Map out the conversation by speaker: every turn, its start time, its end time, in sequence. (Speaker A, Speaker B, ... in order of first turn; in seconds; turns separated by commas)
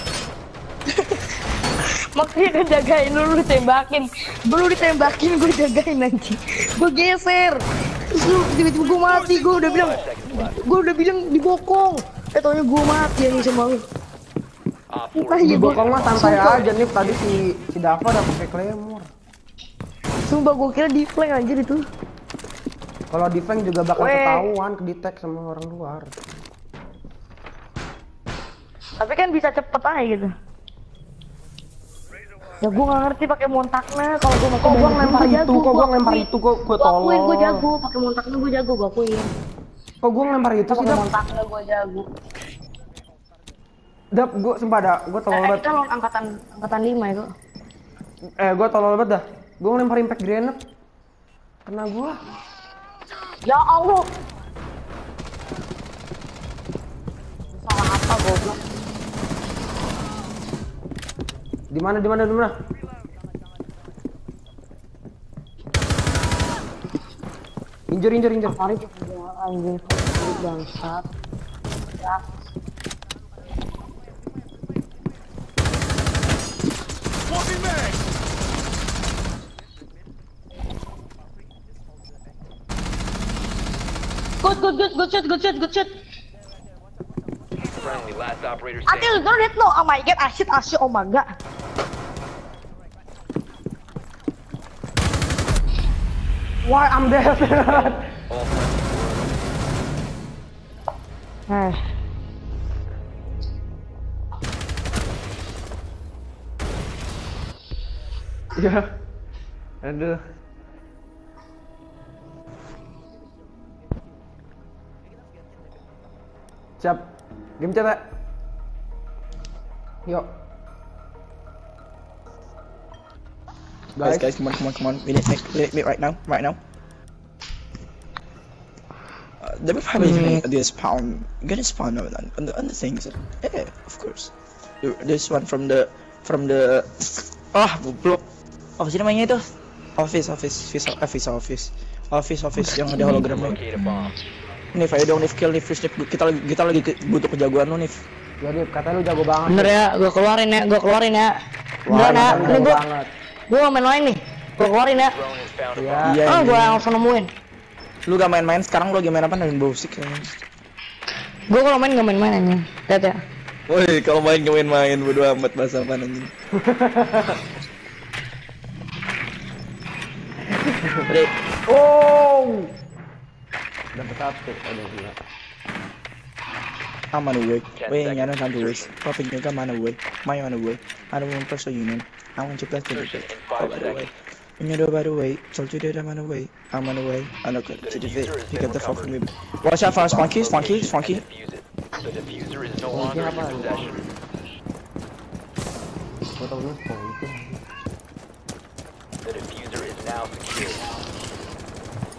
Speaker A: 2.1-13.8, Speaker B: 9.6-10.6, Speaker B: 14.9-16.7, Speaker A: 15.1-16.7, Speaker C: 15.4-19.1, Speaker A: 20.2-21.8, Speaker C: 23.1-26.1, Speaker A: 23.9-24.4, Speaker A: 29.0-30.3, Speaker A: 32.6-39.3, Speaker C: 34.6-37.6, Speaker C: 40.0-41.1, Speaker A: 40.7-42.1, Speaker C: 44.1-45.7, Speaker A: 45.3-47.3, Speaker C: 48.4-50.6, Speaker C: 51.7-52.2, Speaker A: 53.4-54.1, Speaker A: 57.6-58.6, Speaker C: 61.7-62.5, Speaker C: 67.9-68.6, Speaker A: 68.5-71.1, Speaker A: 84.4-85.9, Speaker B: 87.8-89.2, Speaker A: 88.9-91.3, Speaker C: 96.6-98.1, Speaker B: 97.4-99.4, Speaker A: 101.5-101.8, Speaker C: 108.5-108.9, Speaker C: 109.8-110.2, Speaker C: 116.8-118.1, Speaker C: 120.1-120.3, Speaker C: 123.9-124.3, Speaker D: 124.0-126.6, Speaker D: 129.4-138.2, Speaker A: 130.0-130.4, Speaker D: 138.8-139.5, Speaker D: 140.0-143.6, Speaker A: 142.9-143.4, Speaker B: 143.2-144.2, Speaker D: 144.7-148.0, Speaker C: 148.4-149.7, Speaker A: 149.5-151.3, Speaker C: 151.8-153.1, Speaker A: 151.9-152.8, Speaker D: 151.9-152.6, Speaker A: 153.5-155.2, Speaker B: 155.0-156.2, Speaker C: 155.8-156.2, Speaker D: 156.0-156.8, Speaker A: 156.2-157.3, Speaker D: 158.1-160.4, Speaker A: 161.5-163.2, Speaker D: 163.7-166.3, Speaker C: 166.6-167.4, Speaker C: 170.5-171.1, Speaker D: 171.1-171.3, Speaker C: 171.7-172.7, Speaker C: 173.9-175.2, Speaker D: 177.1-191.2, Speaker B: 177.8-178.9, Speaker B: 182.9-184.2, Speaker B: 187.8-189.2, Speaker B: 189.9-194.0, Speaker C: 192.9-193.9, Speaker C: 196.4-197.6, Speaker B: 199.2-200.9